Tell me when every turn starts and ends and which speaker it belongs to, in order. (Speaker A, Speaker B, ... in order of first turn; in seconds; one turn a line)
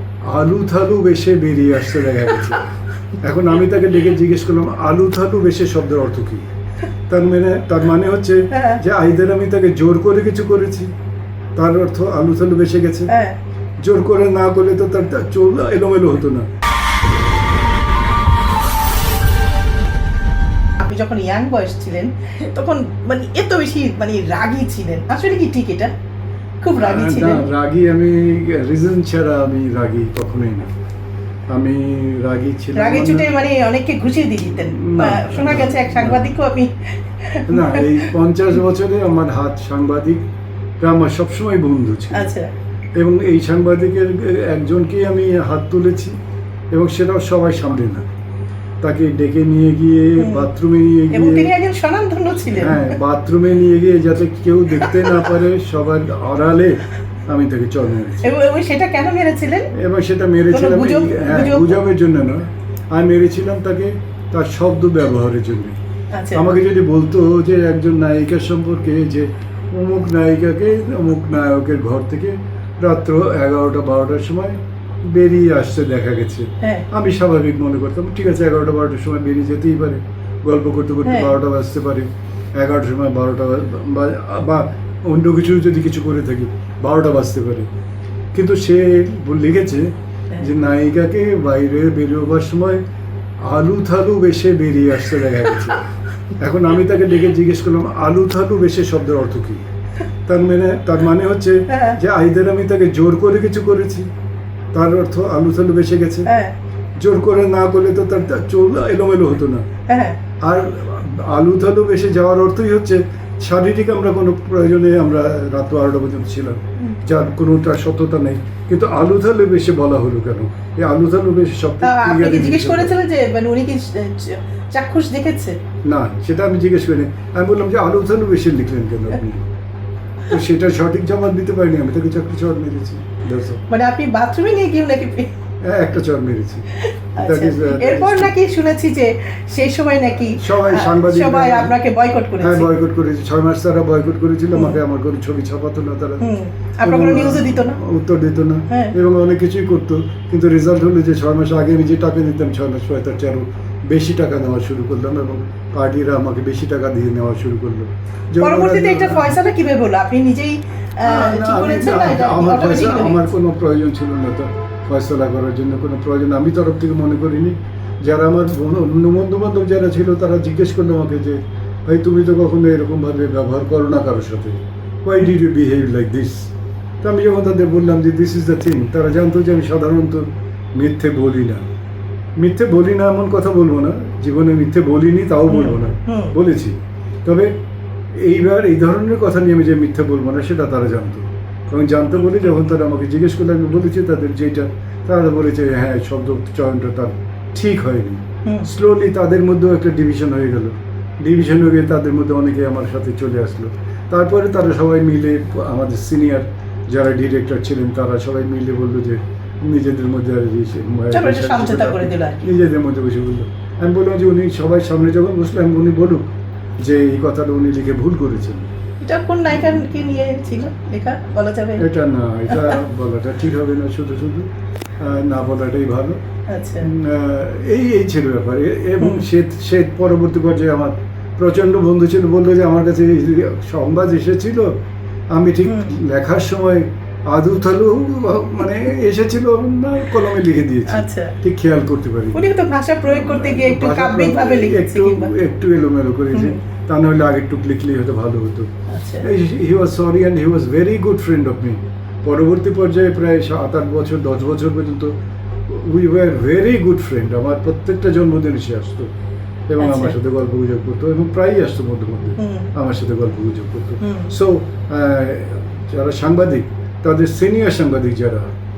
Speaker A: 0.3-6.4
Speaker A: 7.1-10.9
Speaker B: 8.5-8.8
Speaker A: 11.6-13.1
Speaker B: 13.1-13.4
Speaker A: 13.8-16.4
Speaker B: 20.8-25.9
Speaker B: 26.6-27.4
Speaker A: 26.8-30.7
Speaker A: 31.5-33.3
Speaker B: 32.8-38.1
Speaker A: 34.5-36.3
Speaker A: 37.5-40.2
Speaker A: 40.8-42.3
Speaker B: 42.1-42.5
Speaker A: 43.0-46.1
Speaker A: 46.7-48.0
Speaker A: 48.8-51.5
Speaker B: 50.2-50.5
Speaker B: 51.1-53.0
Speaker A: 52.5-58.3
Speaker B: 54.7-55.3
Speaker B: 58.2-59.7
Speaker A: 59.7-65.8
Speaker B: 60.5-61.8
Speaker B: 66.1-66.5
Speaker A: 66.3-87.7
Speaker B: 81.0-81.3
Speaker A: 88.3-89.8
Speaker A: 90.4-92.8
Speaker A: 93.5-95.8
Speaker A: 96.4-99.6
Speaker A: 100.3-104.1
Speaker B: 101.7-102.0
Speaker A: 104.7-106.3
Speaker B: 106.3-106.5
Speaker A: 107.0-109.6
Speaker B: 109.9-110.2
Speaker A: 110.4-123.0
Speaker B: 121.8-125.6
Speaker A: 125.9-129.4
Speaker A: 130.3-133.6
Speaker B: 133.7-135.3
Speaker A: 135.6-138.3
Speaker B: 136.8-142.7
Speaker A: 140.3-141.7
Speaker A: 142.4-146.2
Speaker B: 144.5-144.8
Speaker B: 146.2-147.8
Speaker A: 146.8-159.3
Speaker B: 148.7-148.9
Speaker B: 158.4-163.3
Speaker A: 161.0-176.5
Speaker A: 177.0-181.6
Speaker A: 182.4-187.5
Speaker B: 185.5-186.3
Speaker A: 188.1-218.7
Speaker B: 211.1-212.5
Speaker B: 219.0-221.8
Speaker A: 221.8-224.5
Speaker B: 222.5-222.8
Speaker A: 225.0-226.2
Speaker B: 226.5-226.9
Speaker A: 226.8-234.7
Speaker B: 229.0-229.2
Speaker A: 235.3-242.5
Speaker B: 235.6-235.9
Speaker B: 240.9-241.4
Speaker B: 242.3-245.3
Speaker A: 243.0-248.7
Speaker B: 246.3-246.6
Speaker B: 248.9-249.3
Speaker A: 249.2-255.1
Speaker A: 255.7-259.1
Speaker A: 259.7-268.5
Speaker B: 259.8-260.1
Speaker B: 262.4-262.7
Speaker B: 264.0-264.3